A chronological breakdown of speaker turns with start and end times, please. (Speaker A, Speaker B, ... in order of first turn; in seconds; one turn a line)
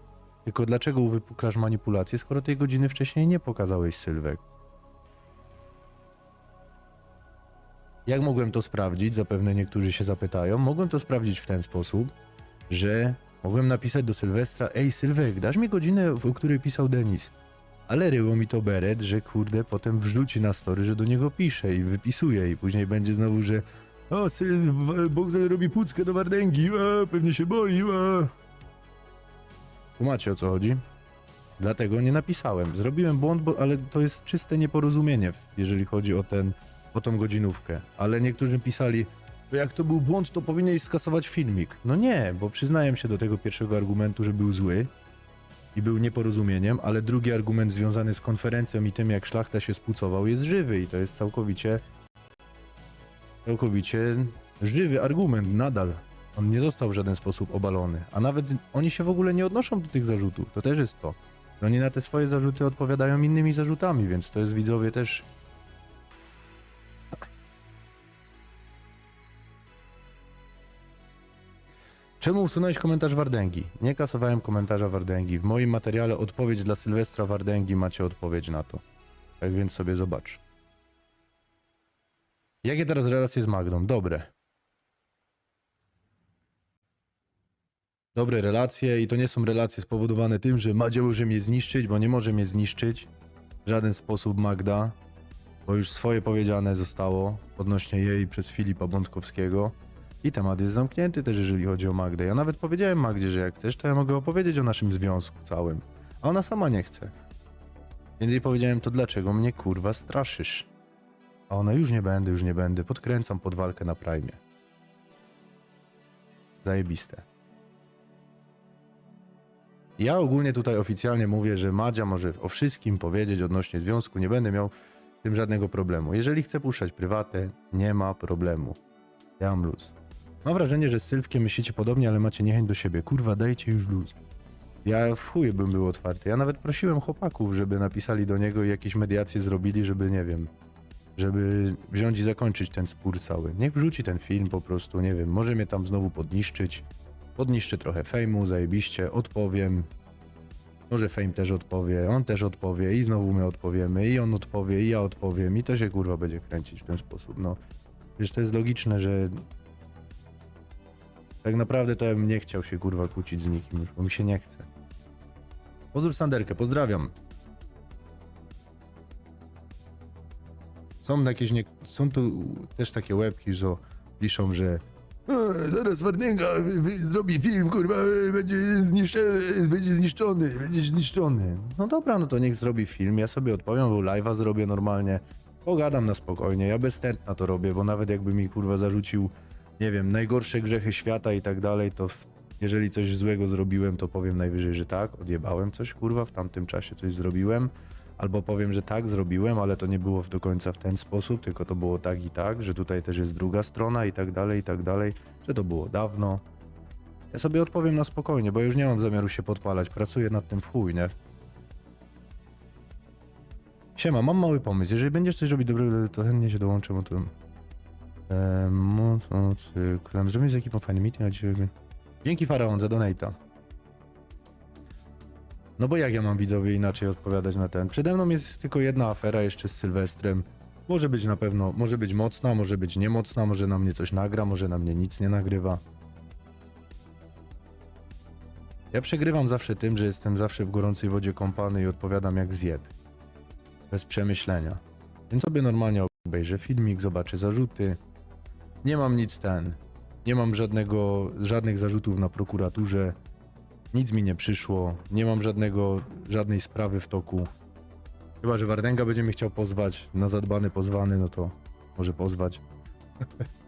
Speaker A: 0.5-4.4
Speaker A: 8.1-12.1
Speaker A: 12.7-17.3
Speaker A: 17.9-28.3
Speaker A: 30.0-30.8
Speaker A: 31.6-44.9
Speaker A: 45.8-51.8
Speaker A: 53.5-65.3
Speaker A: 72.2-78.8
Speaker A: 79.4-80.4
Speaker A: 82.6-84.3
Speaker A: 88.2-93.1
Speaker A: 93.7-95.0
Speaker A: 95.7-107.1
Speaker A: 108.2-110.7
Speaker A: 111.5-114.4
Speaker A: 116.6-117.2
Speaker A: 120.0-128.8
Speaker A: 129.4-134.2
Speaker A: 134.8-140.5
Speaker A: 141.2-149.9
Speaker A: 150.9-157.6
Speaker A: 158.2-159.4
Speaker A: 161.4-164.7
Speaker A: 165.9-167.1
Speaker A: 171.0-206.4
Speaker A: 207.3-211.1
Speaker A: 214.0-217.3
Speaker A: 218.3-221.7
Speaker A: 222.2-223.4
Speaker A: 225.8-235.8
Speaker A: 238.9-242.9
Speaker A: 243.9-248.0
Speaker A: 248.8-253.2
Speaker A: 253.9-257.5
Speaker A: 258.4-262.6